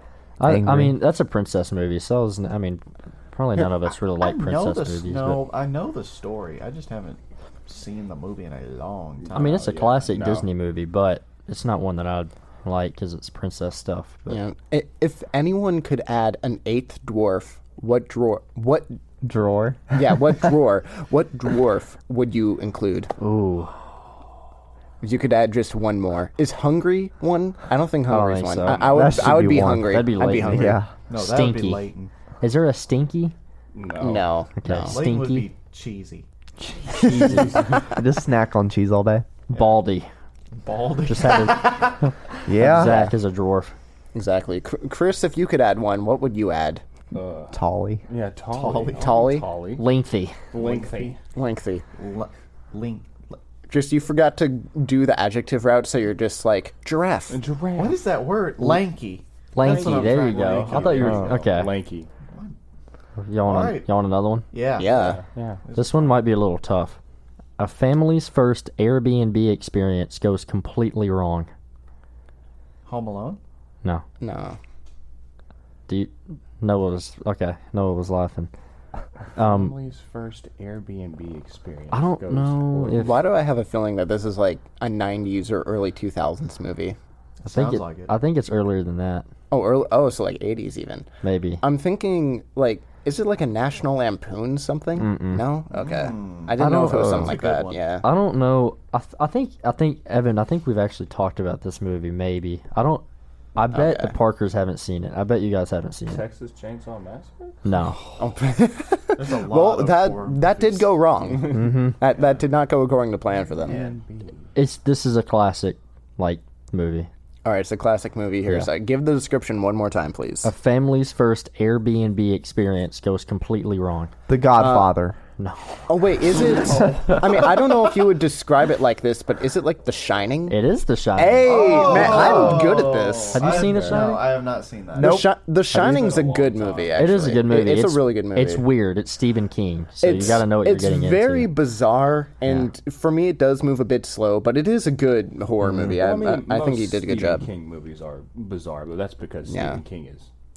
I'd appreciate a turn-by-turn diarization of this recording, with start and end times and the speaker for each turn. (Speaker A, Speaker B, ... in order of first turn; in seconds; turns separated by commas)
Speaker A: 0.4-5.4, Speaker B: 0.4-0.9, Speaker C: 4.2-9.6, Speaker D: 9.2-10.5, Speaker A: 9.3-14.4, Speaker E: 14.3-19.0, Speaker B: 19.2-20.2, Speaker E: 19.9-23.1, Speaker A: 23.2-23.7, Speaker E: 25.0-30.8, Speaker A: 28.1-31.9, Speaker B: 28.8-30.9, Speaker C: 31.1-32.1, Speaker A: 32.4-33.3, Speaker D: 33.7-34.3, Speaker E: 34.0-35.0, Speaker A: 34.6-35.5, Speaker C: 34.9-36.2, Speaker E: 36.9-37.7, Speaker B: 37.9-39.2, Speaker A: 39.5-40.1, Speaker C: 40.6-41.9, Speaker A: 41.0-43.7, Speaker B: 42.5-43.1, Speaker E: 44.1-46.8, Speaker D: 47.1-49.9, Speaker B: 47.5-48.0, Speaker C: 48.5-49.2, Speaker E: 48.7-49.5, Speaker A: 49.8-50.4, Speaker D: 50.5-51.2, Speaker C: 50.5-51.1, Speaker E: 51.3-51.8, Speaker C: 52.0-53.4, Speaker E: 53.7-57.4, Speaker D: 57.3-58.0, Speaker C: 57.7-61.7, Speaker A: 59.5-61.7, Speaker D: 59.6-62.1, Speaker C: 62.3-62.5, Speaker A: 63.2-64.5, Speaker C: 63.4-63.9, Speaker C: 64.5-66.2, Speaker E: 64.8-65.2, Speaker D: 64.9-65.6, Speaker A: 65.7-67.0, Speaker A: 67.6-71.5, Speaker C: 72.8-73.4, Speaker E: 74.2-74.6, Speaker A: 75.9-78.5, Speaker A: 79.3-79.8, Speaker D: 79.3-83.2, Speaker A: 81.9-83.2, Speaker E: 83.0-87.0, Speaker C: 87.4-88.1, Speaker A: 87.5-89.2, Speaker E: 89.5-91.1, Speaker A: 91.2-91.6, Speaker E: 91.6-98.0, Speaker A: 95.0-95.3, Speaker C: 95.7-97.8, Speaker A: 96.6-97.2, Speaker A: 98.0-103.0, Speaker A: 103.5-106.2, Speaker E: 103.7-104.1, Speaker D: 106.1-107.6, Speaker A: 107.6-108.0, Speaker E: 108.2-113.8, Speaker C: 109.1-111.3, Speaker A: 111.5-112.0, Speaker D: 113.5-114.5, Speaker C: 113.7-114.0, Speaker A: 114.5-117.1, Speaker E: 117.4-120.5, Speaker A: 120.4-124.1, Speaker B: 124.3-125.2, Speaker E: 124.5-124.9, Speaker A: 125.4-125.8, Speaker E: 125.9-130.6, Speaker C: 126.3-127.7, Speaker A: 130.5-132.6, Speaker E: 131.2-133.5, Speaker C: 131.4-135.2, Speaker A: 133.3-134.2, Speaker D: 133.5-134.1, Speaker B: 134.9-135.3, Speaker E: 134.9-138.7, Speaker D: 135.8-137.0, Speaker A: 136.9-141.5, Speaker E: 140.0-147.4, Speaker D: 145.8-150.3, Speaker E: 149.5-149.8